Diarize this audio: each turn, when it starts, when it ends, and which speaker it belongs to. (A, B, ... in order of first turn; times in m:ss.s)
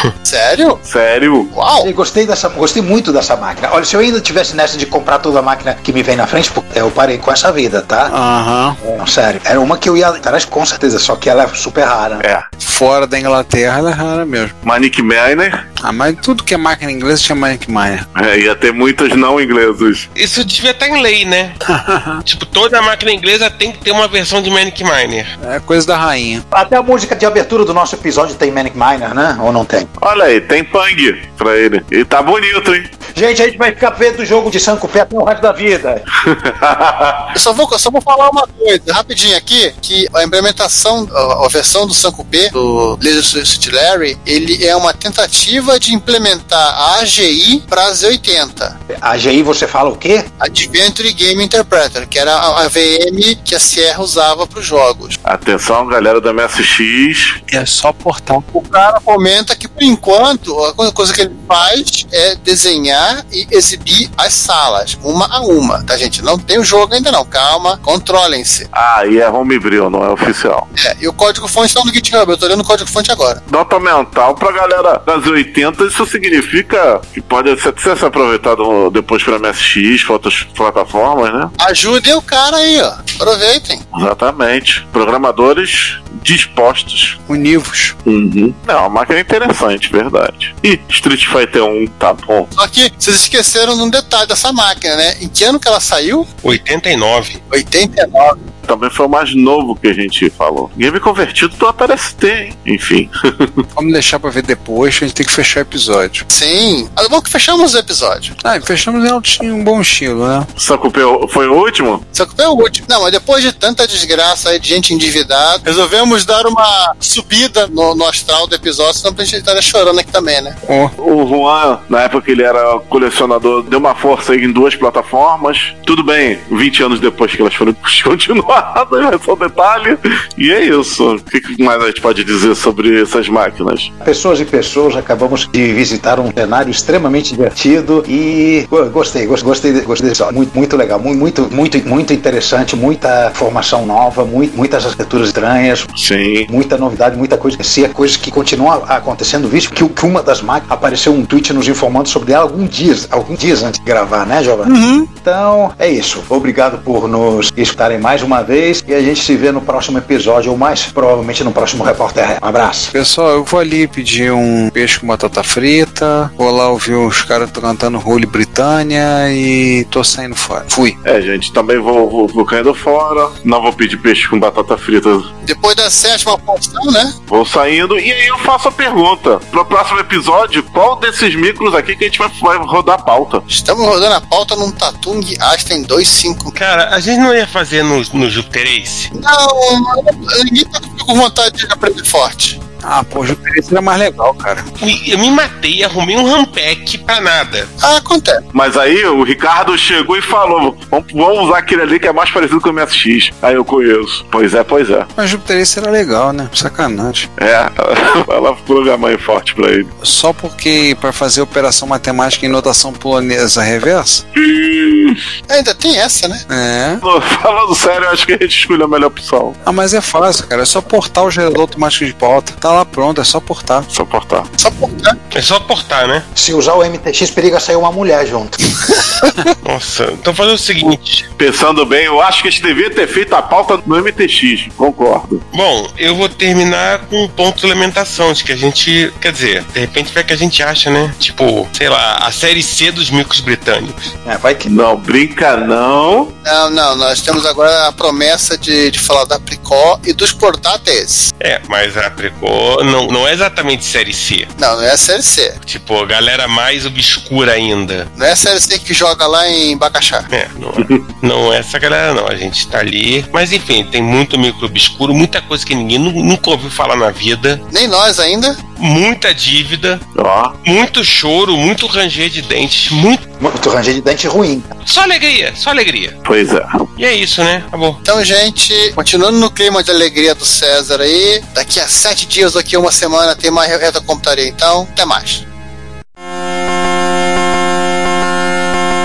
0:00.2-0:00.8 A
0:00.8-0:01.5 B
0:01.5-0:01.9 A
0:01.8-0:08.1 C
0:08.1-0:08.8 D
0:08.8-0:12.2 C
0:12.2-0:12.5 B
0:12.6-0:14.5 D
0:14.6-0:15.6 B
0:15.8-0:18.1 D
0:18.1-0:20.1 B
0:20.2-0:21.6 E
0:21.6-0:22.2 D
0:22.2-0:25.3 E
0:25.4-0:26.4 D
0:26.5-0:29.9 C
0:30.0-0:32.9 B
0:33.1-0:36.0 C
0:36.2-0:37.2 B
0:37.3-0:48.7 A
0:48.9-0:50.3 C
0:50.4-0:55.2 A
0:55.2-0:57.4 B
0:57.5-0:58.4 D
0:58.5-1:08.7 A
1:08.7-1:10.7 B
1:10.8-1:13.4 A
1:13.5-1:21.5 B
1:21.6-1:23.8 A
1:23.9-1:27.2 B
1:27.3-1:28.0 D
1:28.0-1:32.5 B
1:32.5-1:36.3 A
1:36.4-1:37.4 E
1:37.5-1:38.4 A
1:38.6-1:43.6 B
1:43.8-1:46.2 D
1:46.3-1:48.3 A
1:48.4-1:50.5 D
1:50.6-1:52.0 B
1:52.1-2:00.5 A
2:00.6-2:00.9 D
2:01.0-2:13.9 B
2:14.0-2:25.9 C
2:26.0-2:26.5 B
2:26.5-2:42.9 C
2:34.6-2:35.1 A
2:42.9-2:51.0 D
2:51.0-2:55.3 B
2:55.4-2:57.1 A
2:57.3-3:03.4 B
3:03.5-3:06.5 A
3:06.5-3:09.1 E
3:09.1-3:12.6 A
3:12.8-3:14.7 D
3:14.8-3:17.7 E
3:17.8-3:18.4 A
3:18.5-3:25.1 B
3:25.2-3:27.3 D
3:27.4-3:29.9 B
3:30.0-3:34.2 D
3:34.4-3:35.2 B
3:35.5-3:36.4 A
3:36.5-3:37.0 D
3:37.0-3:39.6 B
3:39.6-3:43.9 D
3:43.9-3:44.5 B
3:44.6-3:45.2 A
3:45.3-3:46.2 E
3:46.3-3:48.6 C
3:49.6-3:51.2 E
3:51.4-3:55.4 B
3:55.5-4:04.0 E
4:04.2-4:04.7 C
4:04.6-4:06.3 B
4:06.4-4:11.3 A
4:11.4-4:14.5 E
4:14.6-4:15.6 A
4:15.6-4:18.1 E
4:18.2-4:20.3 A
4:20.3-4:27.6 E
4:20.8-4:21.0 B
4:27.7-4:28.6 A
4:28.8-4:30.0 E
4:30.2-4:30.5 B
4:30.6-4:33.2 E
4:33.4-4:34.7 C
4:34.8-4:36.2 E
4:36.2-4:36.8 B
4:37.0-4:38.0 E
4:38.0-4:45.4 A